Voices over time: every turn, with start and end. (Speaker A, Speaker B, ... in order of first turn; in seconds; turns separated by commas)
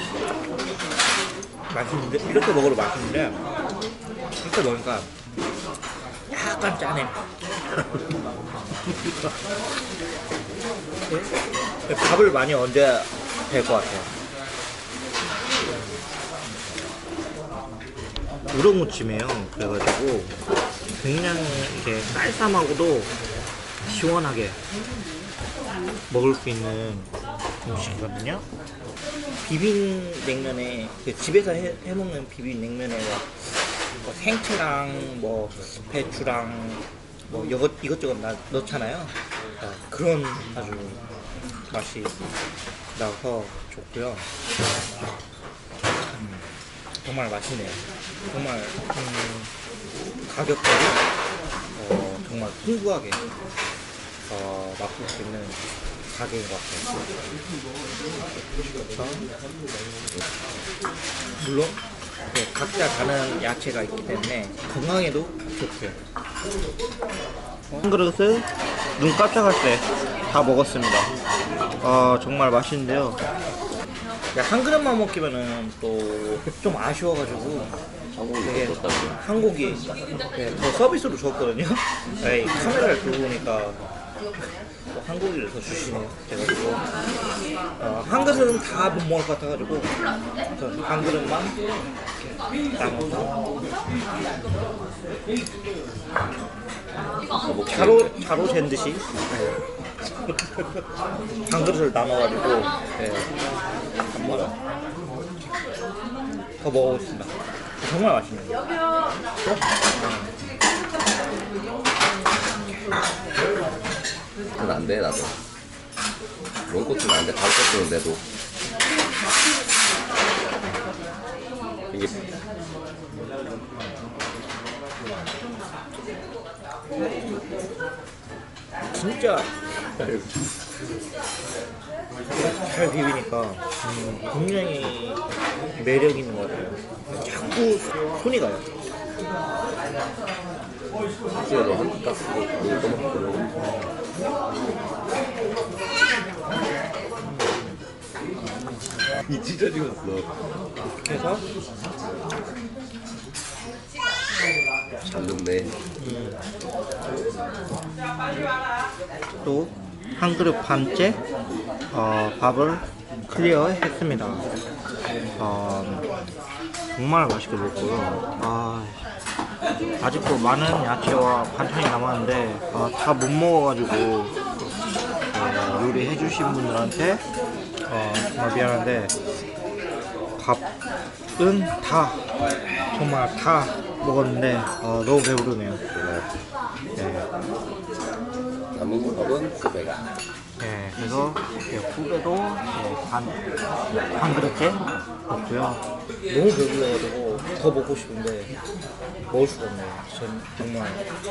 Speaker A: 1.7-3.4, Speaker A: 4.4-5.1, Speaker A: 6.3-7.2, Speaker A: 11.1-11.3, Speaker A: 11.8-14.1, Speaker A: 18.5-20.3, Speaker A: 21.0-23.1, Speaker A: 23.9-24.6, Speaker A: 26.1-27.1, Speaker A: 27.6-28.4, Speaker A: 29.4-41.0, Speaker A: 41.7-42.2, Speaker A: 42.9-44.2, Speaker A: 46.1-46.5, Speaker A: 47.0-49.5, Speaker A: 50.2-51.0, Speaker A: 51.7-53.2, Speaker A: 54.3-56.9, Speaker A: 58.9-59.3, Speaker A: 61.4-61.8, Speaker A: 62.3-66.0, Speaker A: 67.7-71.1, Speaker A: 71.8-73.2, Speaker A: 74.3-77.8, Speaker B: 78.1-79.2, Speaker A: 78.4-83.8, Speaker A: 84.9-86.8, Speaker A: 87.8-89.9, Speaker A: 90.5-91.5, Speaker A: 92.8-93.3, Speaker B: 97.4-98.1, Speaker A: 97.7-99.0, Speaker A: 101.5-102.7, Speaker B: 103.0-103.3, Speaker A: 104.1-104.5, Speaker A: 106.6-108.6, Speaker A: 109.9-110.3, Speaker B: 114.5-115.3, Speaker B: 116.7-118.2, Speaker B: 121.9-122.2, Speaker A: 128.9-129.5, Speaker B: 129.9-130.4, Speaker A: 132.3-135.2, Speaker A: 135.7-138.7, Speaker B: 141.3-143.5, Speaker A: 143.6-143.9, Speaker A: 147.2-147.8, Speaker B: 149.2-150.3, Speaker A: 151.0-151.4, Speaker B: 155.0-155.7, Speaker A: 156.0-156.4, Speaker A: 159.4-161.2, Speaker A: 161.9-164.4, Speaker A: 165.4-166.1, Speaker A: 166.9-169.0, Speaker A: 170.0-174.3, Speaker A: 175.3-177.2, Speaker A: 177.9-179.1, Speaker A: 180.4-180.6, Speaker A: 181.4-182.2, Speaker A: 182.9-185.8, Speaker B: 185.9-186.3, Speaker A: 186.9-187.3, Speaker B: 188.7-190.0, Speaker A: 190.6-193.4, Speaker A: 194.1-198.5, Speaker A: 199.3-201.0